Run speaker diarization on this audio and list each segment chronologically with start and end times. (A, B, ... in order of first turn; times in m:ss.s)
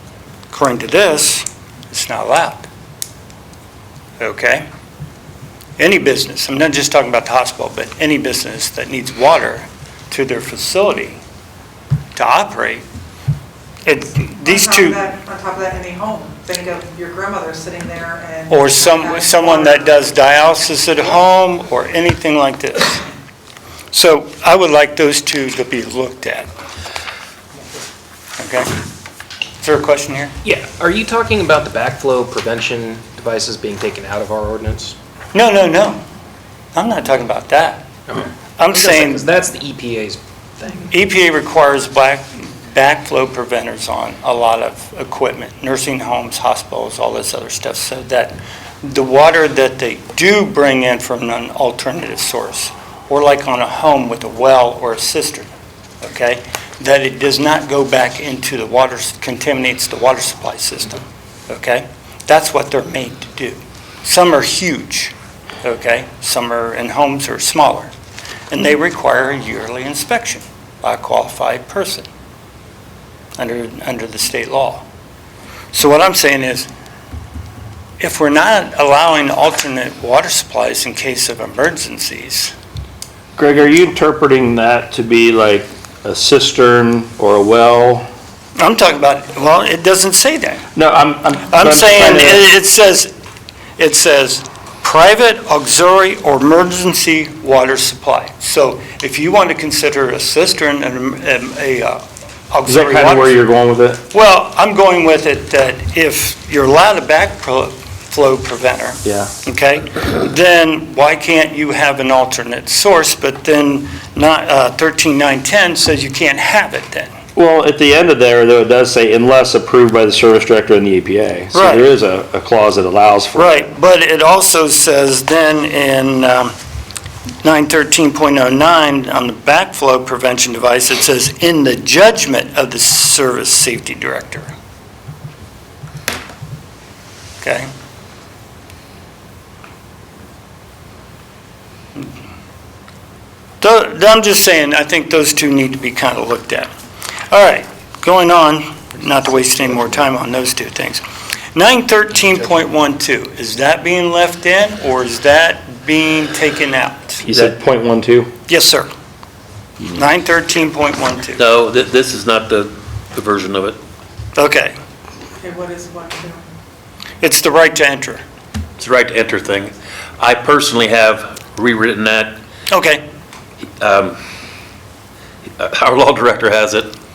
0:00.5-0:02.7 A
0:04.2-0:04.6 A
0:05.8-0:11.2 A
0:12.2-0:12.8 A
0:13.8-0:15.0 A
0:14.4-0:20.0 B
0:18.5-0:23.0 A
0:23.9-0:26.5 A
0:28.4-0:28.7 A
0:29.6-0:30.3 A
0:30.4-0:35.0 C
0:35.3-0:36.0 A
0:36.7-0:37.8 A
0:38.1-0:40.9 C
0:38.6-0:39.3 A
0:40.9-0:55.5 A
0:56.0-1:07.9 A
1:08.5-1:12.1 A
1:13.4-1:14.8 A
1:15.7-1:16.7 A
1:18.0-1:22.5 A
1:23.4-1:28.1 D
1:28.6-1:30.6 A
1:30.8-1:32.4 D
1:31.5-1:33.1 A
1:33.8-1:43.4 A
1:42.7-1:44.0 D
1:44.1-1:57.1 A
1:49.0-1:49.3 D
1:57.3-2:03.6 D
2:01.5-2:01.9 A
2:03.4-2:06.5 A
2:07.4-2:14.5 A
2:17.4-2:17.7 A
2:23.6-2:26.7 A
2:27.3-2:31.0 A
2:31.5-2:37.2 A
2:37.2-2:38.3 D
2:38.5-2:38.9 A
2:39.8-2:41.4 A
2:41.4-2:43.8 E
2:44.4-2:44.8 A
2:45.4-2:46.4 B
2:47.2-2:48.2 A
2:48.8-2:52.4 E
2:52.7-2:53.0 A
2:53.8-2:54.2 E
2:55.6-2:56.9 E